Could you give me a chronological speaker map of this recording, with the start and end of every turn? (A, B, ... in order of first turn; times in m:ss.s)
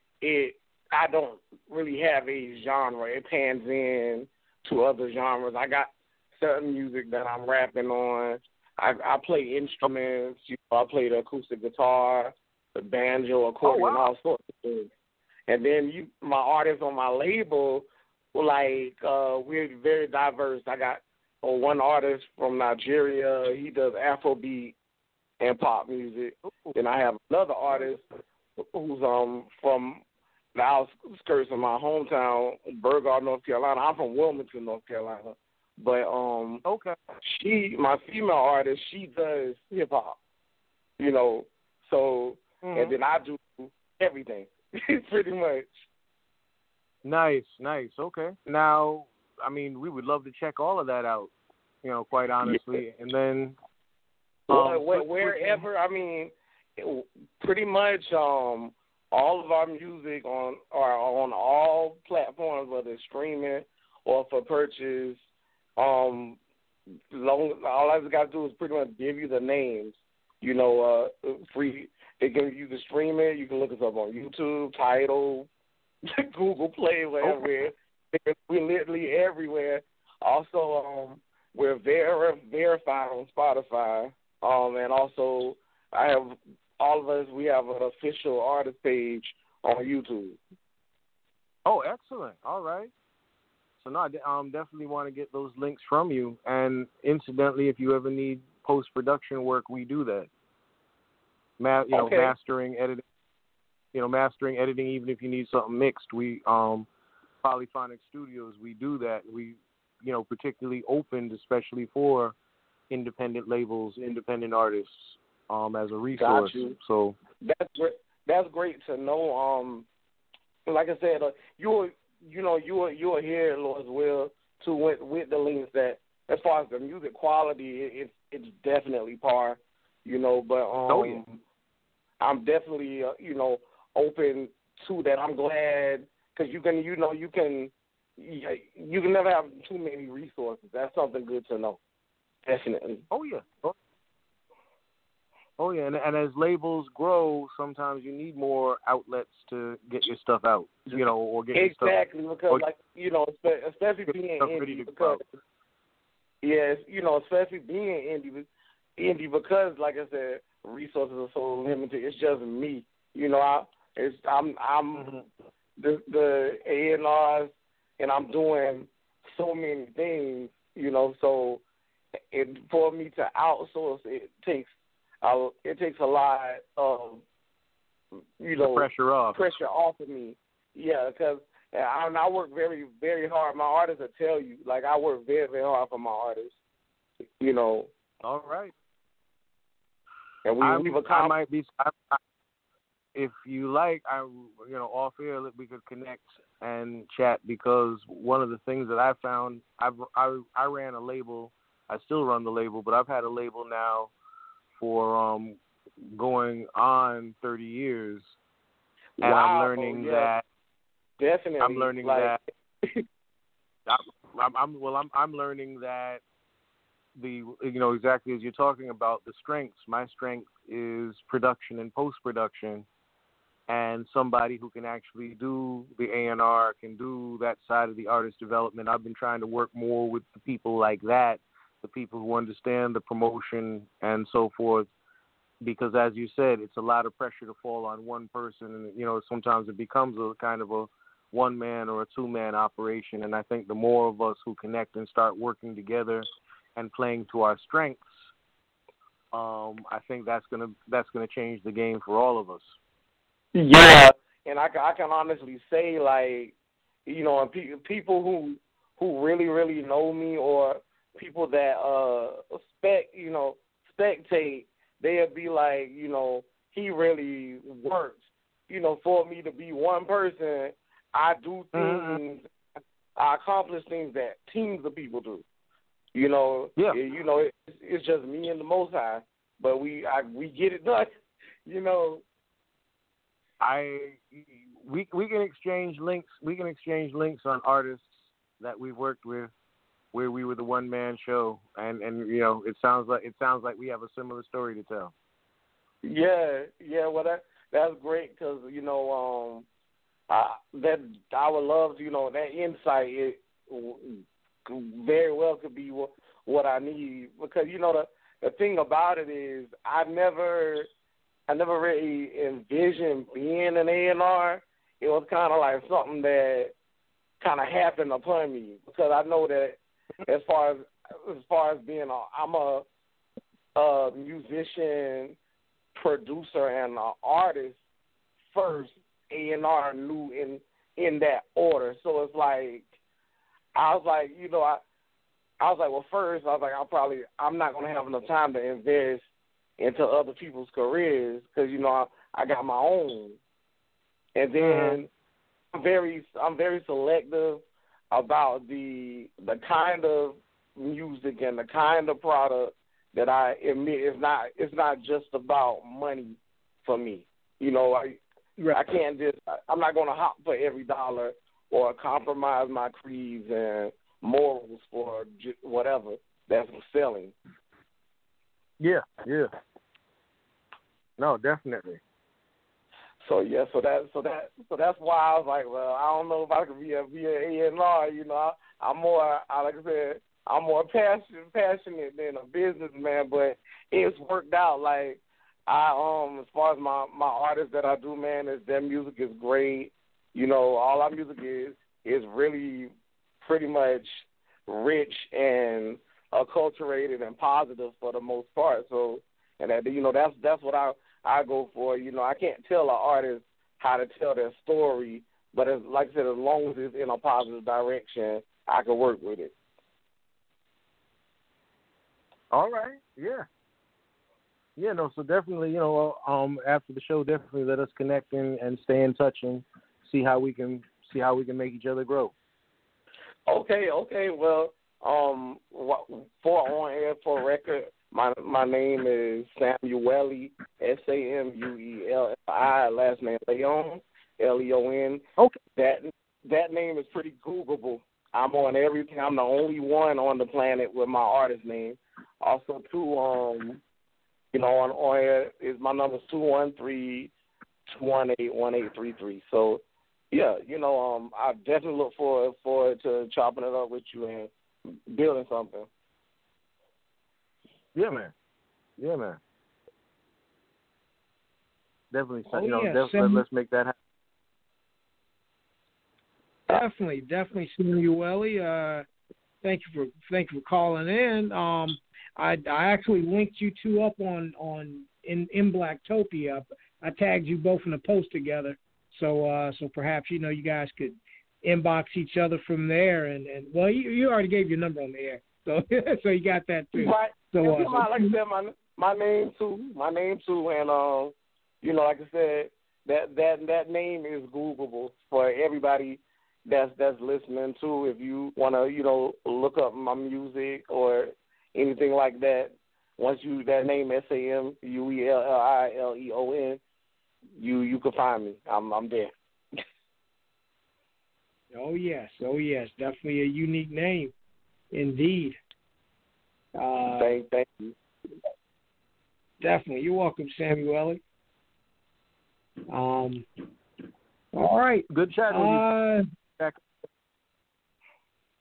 0:00.2-0:14.9 A
0:13.6-0:14.1 B
0:15.5-0:24.7 A
0:25.4-0:28.0 A
0:26.4-0:26.8 B
0:28.6-0:30.0 A
0:30.6-0:36.6 A
0:36.6-0:37.0 B
0:37.2-0:40.2 A
0:41.0-0:45.8 A
0:42.6-0:43.0 B
0:47.0-0:53.6 B
0:54.5-0:55.7 B
0:54.5-1:05.2 A
1:05.8-1:06.4 A
1:07.1-1:15.5 A
1:16.1-1:30.4 A
1:31.7-1:32.9 B
1:33.8-1:40.3 B
1:41.6-1:43.0 B
1:41.9-1:42.3 A
1:43.9-1:46.9 B
1:47.4-1:52.3 B
1:52.9-1:57.2 B
1:56.2-1:56.7 A
1:57.4-1:59.9 A
2:00.7-2:11.4 A
2:10.9-2:11.2 B
2:12.2-2:21.8 A
2:22.4-2:23.0 A
2:23.1-2:23.8 B
2:25.6-2:32.0 B
2:31.6-2:35.2 A
2:34.1-2:35.2 B
2:36.4-2:45.2 A
2:45.0-2:45.2 B
2:45.8-2:51.6 A
2:52.3-2:54.7 A
2:55.2-2:57.2 A
2:58.4-3:06.5 A
2:58.6-2:59.4 B
3:07.4-3:07.9 A
3:08.2-3:08.7 B
3:10.4-3:11.3 A
3:10.6-3:12.2 B
3:13.1-3:24.1 B
3:24.8-3:28.3 B
3:29.2-3:30.3 A
3:29.2-3:30.4 B
3:31.2-3:33.0 A
3:31.6-3:32.4 B
3:33.9-3:36.2 B
3:37.2-3:42.9 B
3:43.7-3:54.9 B
3:55.6-4:08.3 B
4:09.3-4:12.8 B
4:13.6-4:16.5 A
4:17.0-4:32.5 A
4:31.7-4:32.2 B
4:33.2-4:35.4 A
4:36.1-4:42.2 A
4:43.6-4:49.5 B
4:50.1-4:55.1 B
4:56.0-4:59.6 A
5:00.3-5:10.9 A
5:11.5-5:16.7 A
5:17.4-5:22.8 A
5:23.7-5:25.4 A
5:26.0-5:27.8 A
5:28.5-5:32.9 A
5:33.7-5:34.8 A
5:35.6-5:39.2 A
5:39.8-5:43.4 A
5:44.4-5:45.1 A
5:44.6-5:45.0 B
5:45.7-5:58.2 A
5:58.7-6:07.3 A
6:08.8-6:09.5 B
6:11.2-6:12.0 B
6:13.2-6:49.5 A
6:52.5-6:53.4 B
6:54.8-7:02.3 B
7:03.5-7:15.2 A
7:15.8-7:23.8 A
7:24.5-7:27.3 A
7:27.9-7:34.5 A
7:35.1-7:35.9 A
7:38.0-7:38.3 B
7:39.0-7:39.4 B
7:42.1-7:44.0 B
7:42.5-7:43.4 C
7:46.7-7:49.0 C
7:49.6-8:08.3 C
8:07.0-8:26.8 A
8:27.6-8:29.3 A
8:31.7-8:34.3 C
8:34.9-8:35.6 C
8:36.8-8:37.4 C
8:37.2-8:37.9 A
8:39.6-8:41.2 C
8:42.9-8:43.4 C
8:44.5-8:46.2 C
8:45.1-8:45.9 B